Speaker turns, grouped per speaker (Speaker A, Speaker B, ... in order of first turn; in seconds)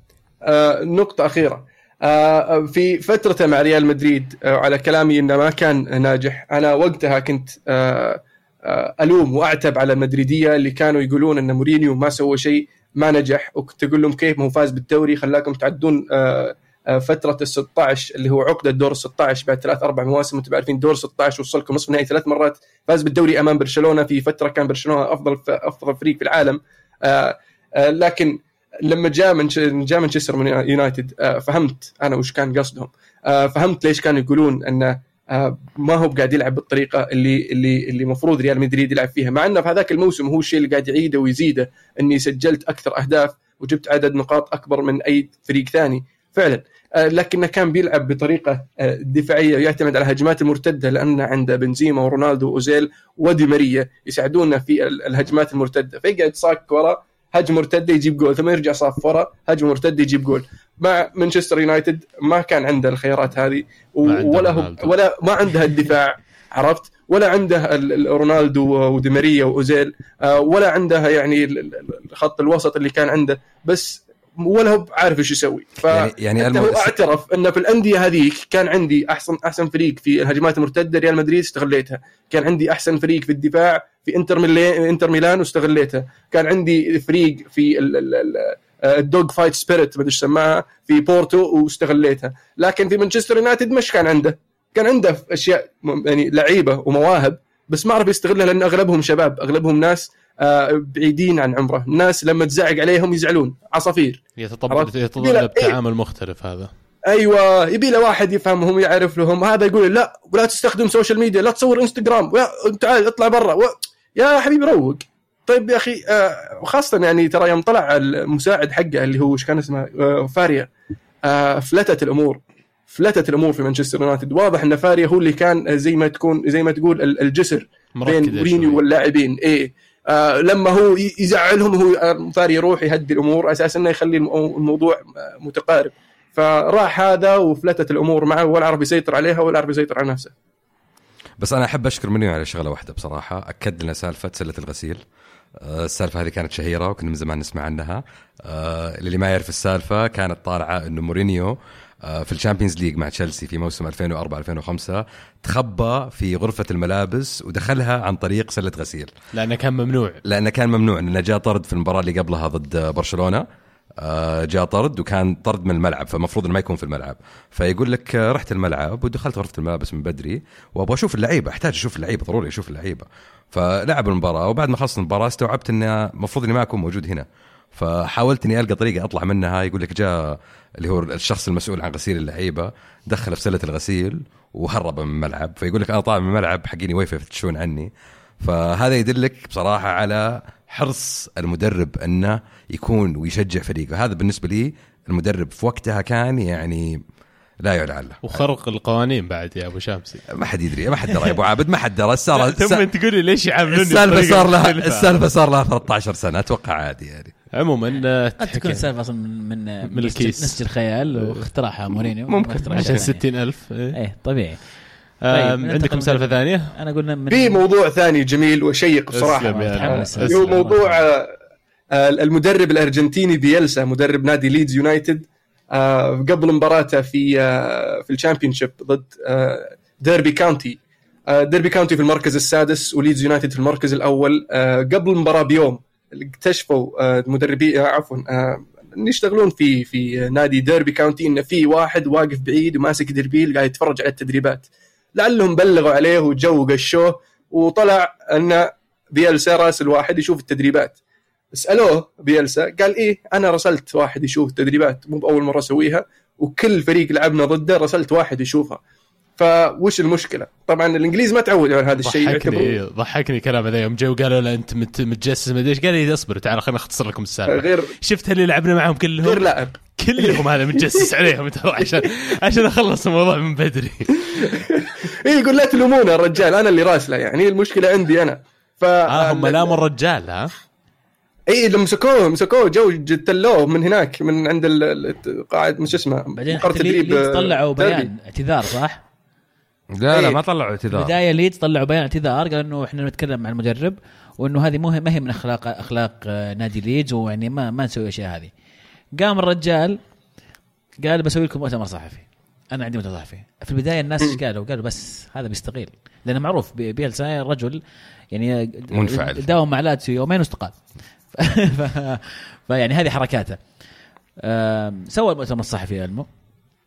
Speaker A: 0.4-105.8, 107.1-120.7, 121.2-140.3, 217.3-221.3, 221.9-230.8, 231.3-250.9, 251.5-258.8, 259.4-262.8, 267.5-267.9, 269.2-271.0, 271.8-272.1, 274.3-279.8, 281.5-288.1, 290.1-290.4
Speaker B: 64.0-64.9, 104.4-106.7, 128.0-128.8, 159.3-160.2, 198.2-200.2, 202.3-205.1, 207.5-208.8, 209.8-210.6, 212.7-213.9, 215.2-216.7, 219.1-220.6, 262.0-274.6, 279.1-280.5
Speaker C: 75.9-76.9, 141.4-145.0, 145.6-159.1, 160.2-163.4, 164.0-187.9, 188.4-197.0, 197.6-198.4, 200.3-202.8, 203.7-207.3, 212.3-213.0, 289.9-291.1, 308.9-309.5
Speaker D: 208.4-213.2, 213.9-214.6, 215.3-217.6, 219.4-221.0, 286.3-289.0, 290.9-298.5, 299.2-300.0, 301.0-307.8, 308.3-310.8, 311.3-313.6, 314.4-316.3